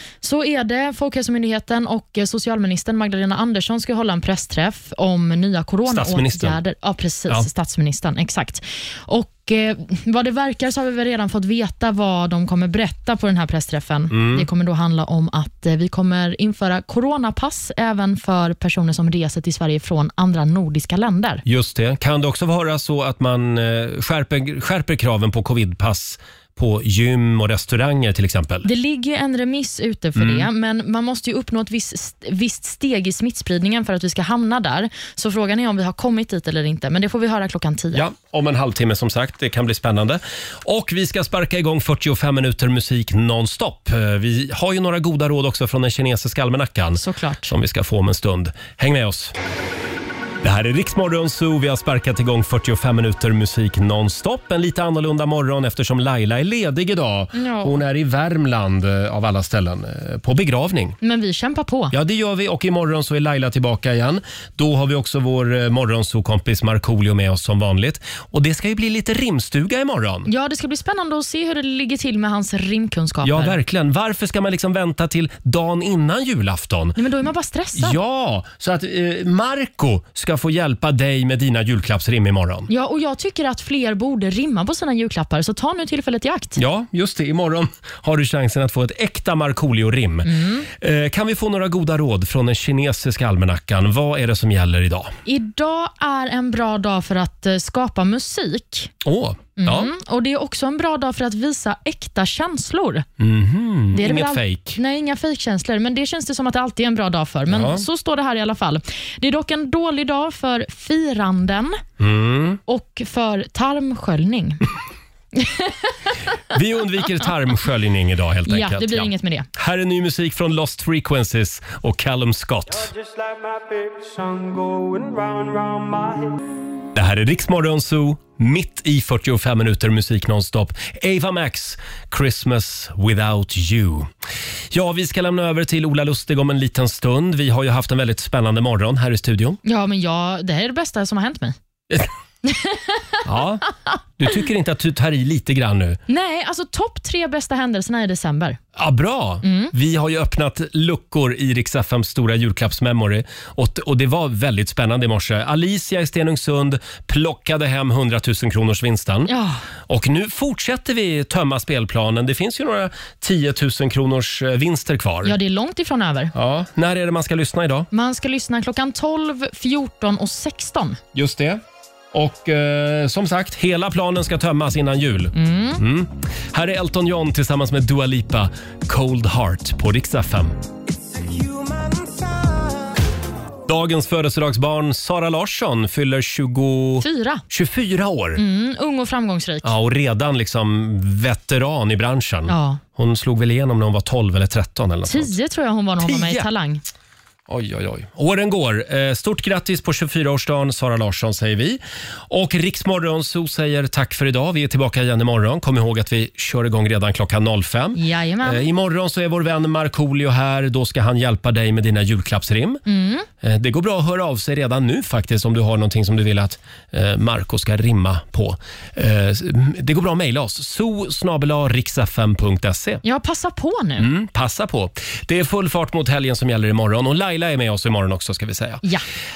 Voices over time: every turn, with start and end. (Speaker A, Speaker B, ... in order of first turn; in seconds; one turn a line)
Speaker A: 0.2-21.4
Speaker B: 5.8-6.6
Speaker B: 14.1-14.5
Speaker B: 21.4-28.7
Speaker A: 28.6-38.0
Speaker B: 30.1-30.5
Speaker B: 37.9-49.3
Speaker A: 47.0-47.5
Speaker B: 50.4-61.0
Speaker A: 57.3-57.8
Speaker A: 61.0-61.9
Speaker B: 61.9-70.3
Speaker A: 70.3-73.6
Speaker B: 73.2-77.0
Speaker A: 77.0-78.0
Speaker B: 77.7-82.7
Speaker A: 82.7-86.6
Speaker B: 86.6-95.1
Speaker A: 90.2-90.7
Speaker A: 95.2-98.9
Speaker B: 99.0-99.9
Speaker A: 99.6-103.0
Speaker B: 103.2-104.8
Speaker A: 103.9-111.8
Speaker B: 107.5-107.8
Speaker B: 112.0-112.6
Speaker A: 112.7-114.6
Speaker A: 115.3-115.9
Speaker B: 116.5-122.9
Speaker A: 118.5-119.5
Speaker B: 126.9-134.1
Speaker B: 134.7-139.6
Speaker A: 139.6-141.6
Speaker A: 142.4-143.2
Speaker B: 143.2-143.6
Speaker B: 144.2-146.0
Speaker A: 146.1-148.6
Speaker B: 148.8-159.3
Speaker A: 149.4-149.7
Speaker A: 159.3-159.6
Speaker B: 159.9-165.3
Speaker A: 165.2-166.3
Speaker B: 166.3-167.9
Speaker A: 167.9-171.0
Speaker B: 171.1-171.6
Speaker B: 172.1-180.6
Speaker A: 175.3-175.8
Speaker B: 183.7-188.4
Speaker A: 187.0-187.4
Speaker A: 188.4-189.7
Speaker B: 189.6-195.3
Speaker A: 192.5-192.8
Speaker A: 195.1-196.8
Speaker B: 196.0-196.5
Speaker B: 197.5-212.8
Speaker A: 207.9-208.6
Speaker A: 212.9-213.3
Speaker B: 213.4-223.0
Speaker A: 223.0-224.1
Speaker B: 224.0-228.8